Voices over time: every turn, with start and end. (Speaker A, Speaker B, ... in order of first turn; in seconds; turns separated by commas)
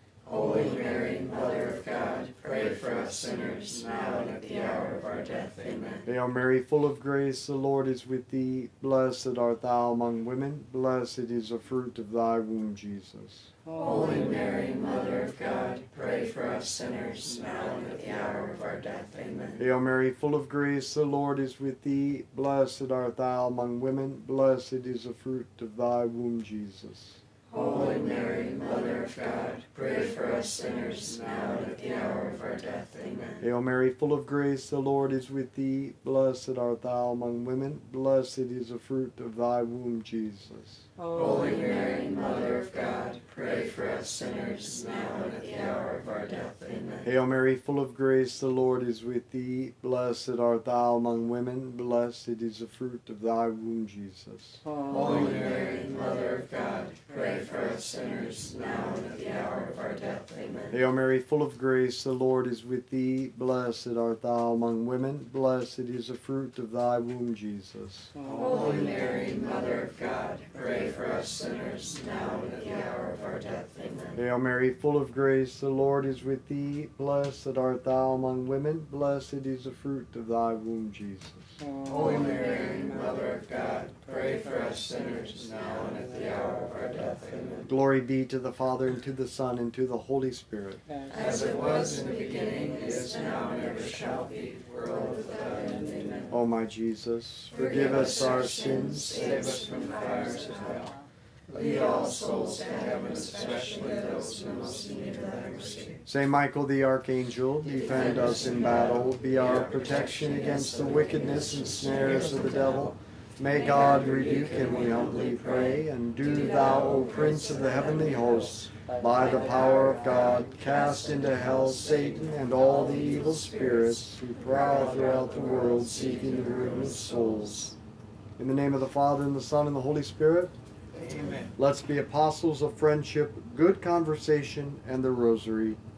Speaker A: 0.2-6.1, Speaker B: 6.0-13.5, Speaker A: 13.7-19.6, Speaker B: 19.6-27.2, Speaker A: 27.5-33.4, Speaker B: 33.4-40.9, Speaker A: 41.1-47.0, Speaker B: 47.0-54.6, Speaker A: 54.8-60.8, Speaker B: 60.7-68.2, Speaker A: 68.2-74.2, Speaker B: 74.1-81.6, Speaker A: 81.8-87.7, Speaker B: 87.6-90.8, Speaker A: 91.1-96.3, Speaker B: 96.3-98.8, Speaker A: 97.6-106.0, Speaker B: 106.0-127.6, Speaker A: 107.8-112.4, Speaker A: 113.7-115.7, Speaker A: 116.5-117.8, Speaker A: 119.2-127.7, Speaker B: 128.4-130.5, Speaker A: 131.0-131.5, Speaker B: 131.6-135.8